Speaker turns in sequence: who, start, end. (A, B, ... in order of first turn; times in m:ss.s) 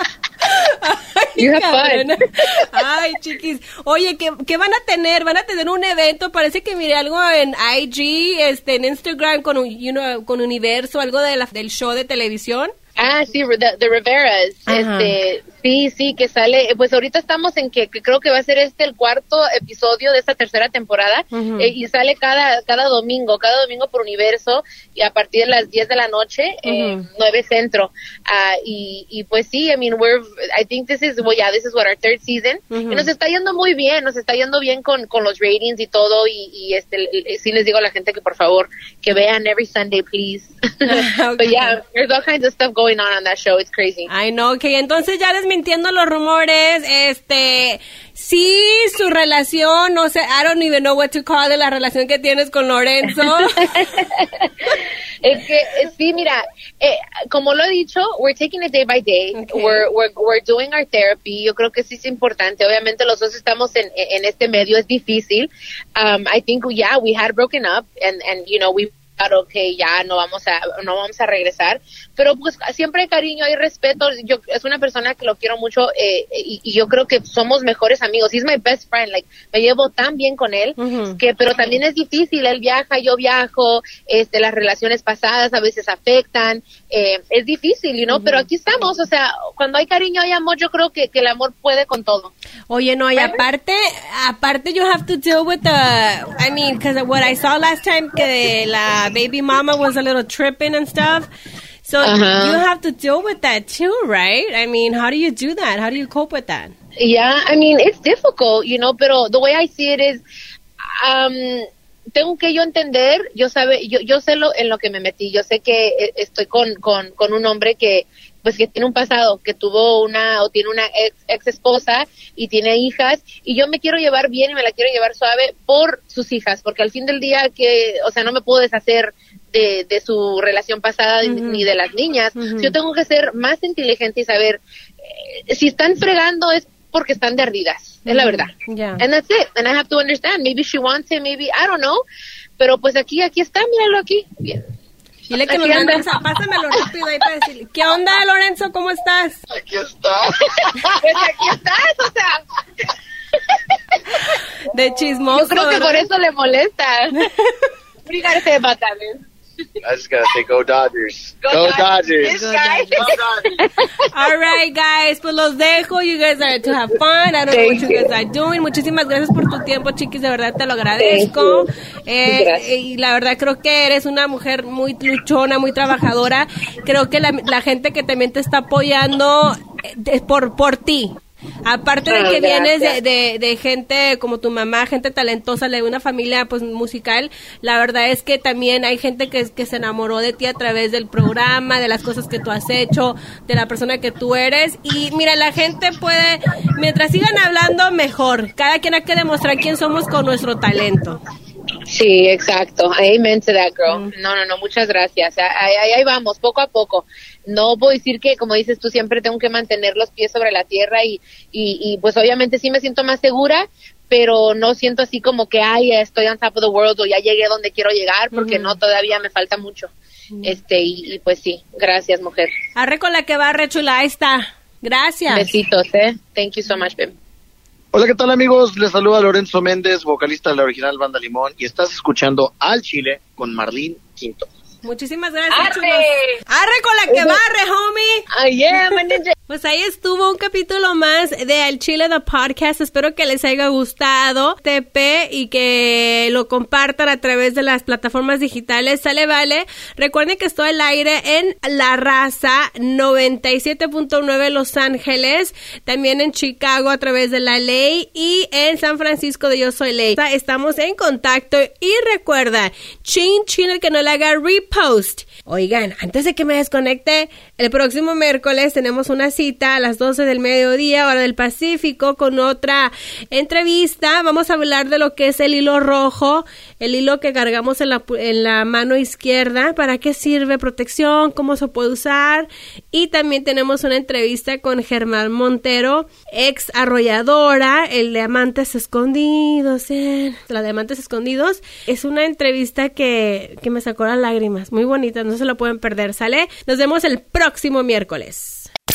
0:00.4-0:12.7 A
0:01.4-0:02.1 B
0:13.0-0:44.1 B
0:14.7-0:15.1 A
0:21.3-0:21.7 A
0:26.6-0:27.1 A
0:32.7-0:33.1 A
0:40.8-0:41.8 A
0:44.1-0:53.8 A
0:53.2-1:32.3 B
0:59.3-0:59.8 A
1:20.8-1:21.2 A
1:28.1-1:28.5 A
1:32.7-1:41.3 A
1:33.2-1:33.4 B
1:41.8-1:46.7 A
1:42.0-1:42.6 B
1:47.0-1:50.2 B
1:51.0-2:22.0 B
2:11.2-2:11.7 A
2:12.4-2:12.7 A
2:18.0-2:19.0 A
2:22.6-2:24.6 B
2:25.3-2:29.4 A
2:25.5-2:26.1 B
2:29.5-2:30.5 C
2:30.4-2:32.4 B
2:34.6-2:36.1 A
2:35.3-2:37.1 B
2:37.1-2:37.6 A
2:38.0-2:39.2 B
2:39.8-2:42.4 C
2:41.4-2:43.7 B
2:42.2-2:43.0 A
2:43.0-2:43.5 C
2:44.1-3:21.2 A
2:47.5-2:48.1 B
2:51.0-2:51.7 B
2:52.2-2:52.6 B
3:02.0-3:03.0 B
3:21.9-3:39.9 B
3:23.9-3:24.1 A
3:38.3-3:38.8 A
3:40.4-3:42.5 B
3:42.8-3:45.5 A
3:45.3-3:47.1 B
3:47.9-3:54.5 C
3:54.8-4:58.7 A
3:55.5-3:56.4 B
3:57.1-3:57.4 B
3:58.3-3:59.3 B